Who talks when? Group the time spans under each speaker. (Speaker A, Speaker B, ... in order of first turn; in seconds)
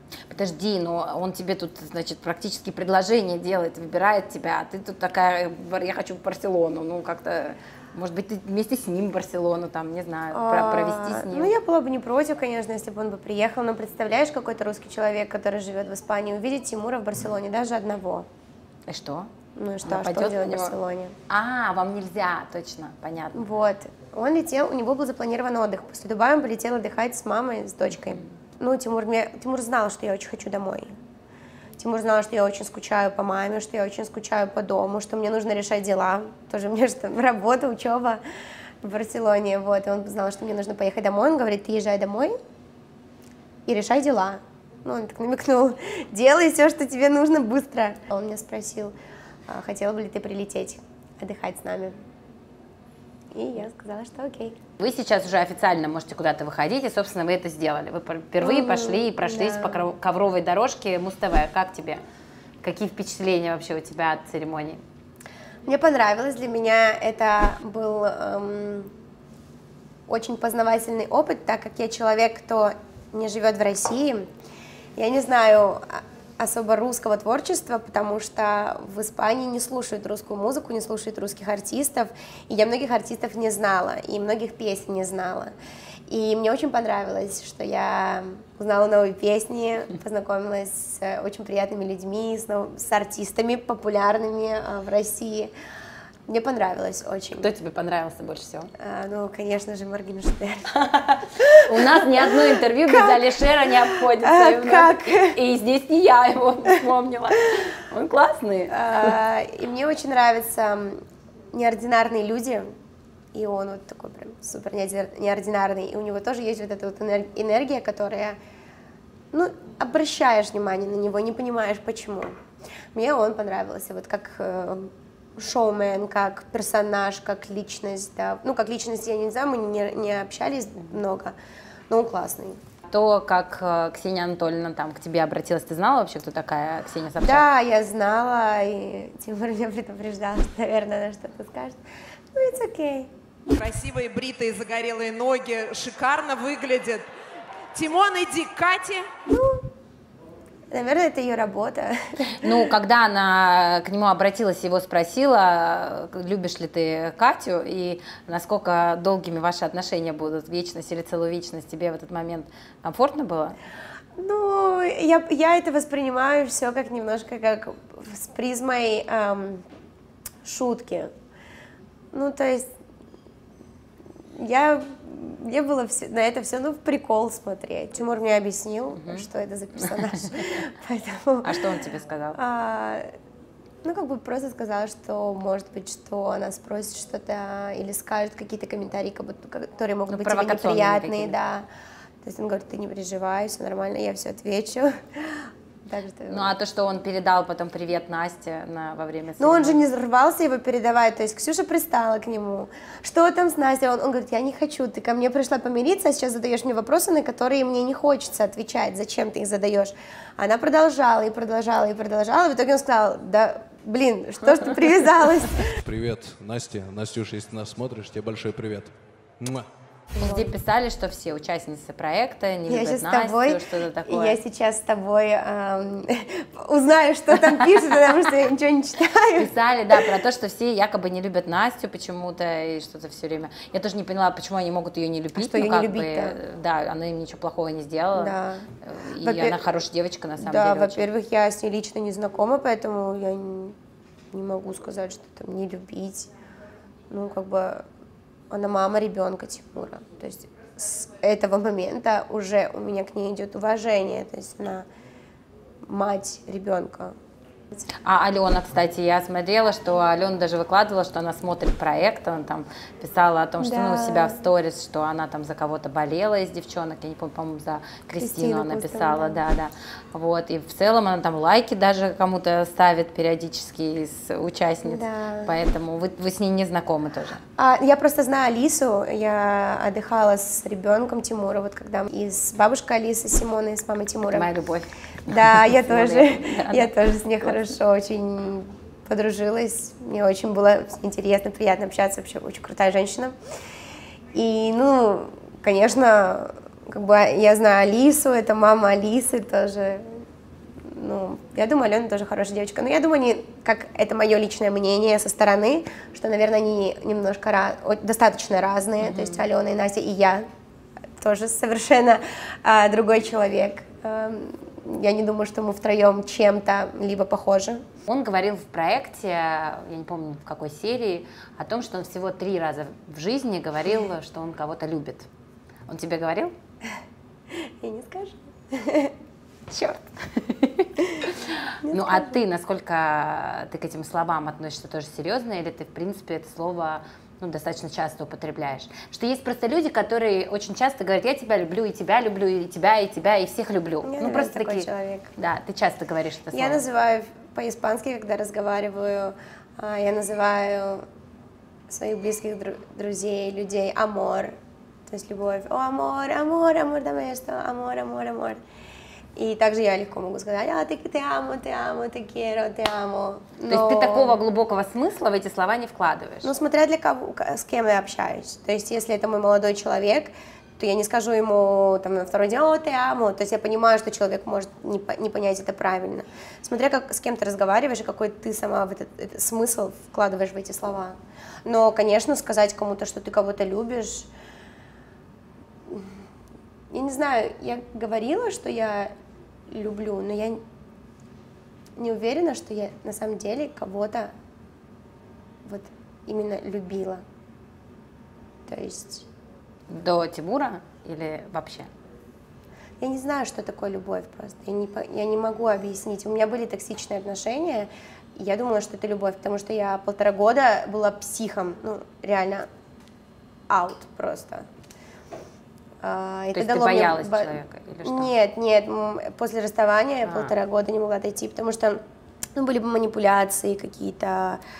Speaker A: 0.3-11.5, 18.9-19.3, 19.9-20.7, 21.3-23.4, 54.8-62.0, 62.6-64.8, 97.4-98.7, 100.7-109.2, 132.9-137.4, 152.4-163.6, 179.0-179.2, 181.4-182.4, 190.1-191.4, 196.3-199.8, 220.2-224.4, 229.4-241.1, 258.0-277.4, 284.3-287.6, 309.0-309.4, 318.1-325.3, 325.9-326.6, 329.9-346.8, 363.7-366.5, 399.9-401.9, 416.5-418.3, 420.2-420.5
Speaker B: 10.3-18.3, 19.6-21.2, 23.4-31.0, 31.8-38.2, 38.8-42.4, 43.7-49.0, 49.5-52.0, 53.3-54.6, 58.4-59.9, 65.7-68.9, 70.1-74.3, 75.0-85.5, 86.1-95.5, 96.3-97.5, 98.8-100.7, 101.4-105.4, 108.7-112.7, 113.3-118.4, 119.3-122.4, 122.9-131.4, 131.9-132.6, 137.2-141.8, 142.3-143.1, 149.3-149.7, 150.7-152.5, 164.2-169.7, 170.4-171.1, 172.1-172.7, 174.3-181.6, 182.3-183.1, 183.8-191.7, 192.2-196.5, 199.4-215.8, 220.2-220.5, 222.7-229.5, 235.3-236.4, 238.2-238.7, 239.2-239.7, 240.4-243.8, 244.3-246.3, 247.1-247.8, 248.5-254.9, 255.8-257.2, 263.6-264.4, 268.2-269.4, 274.9-275.5, 277.6-284.5, 285.3-293.4, 294.3-300.2, 300.8-310.5, 311.2-317.9, 327.5-329.1, 329.7-330.0, 331.8-332.4, 344.0-345.3, 346.5-351.1, 351.9-354.6, 355.1-358.6, 359.4-364.4, 366.4-384.3, 385.9-386.2, 386.9-389.1, 389.7-390.6, 392.0-394.3, 395.6-397.2, 398.7-399.3, 403.0-412.7, 413.7-414.7, 416.0-422.0, 422.6-424.6
Speaker C: 143.5-147.1, 147.7-149.1
Speaker D: 215.7-219.7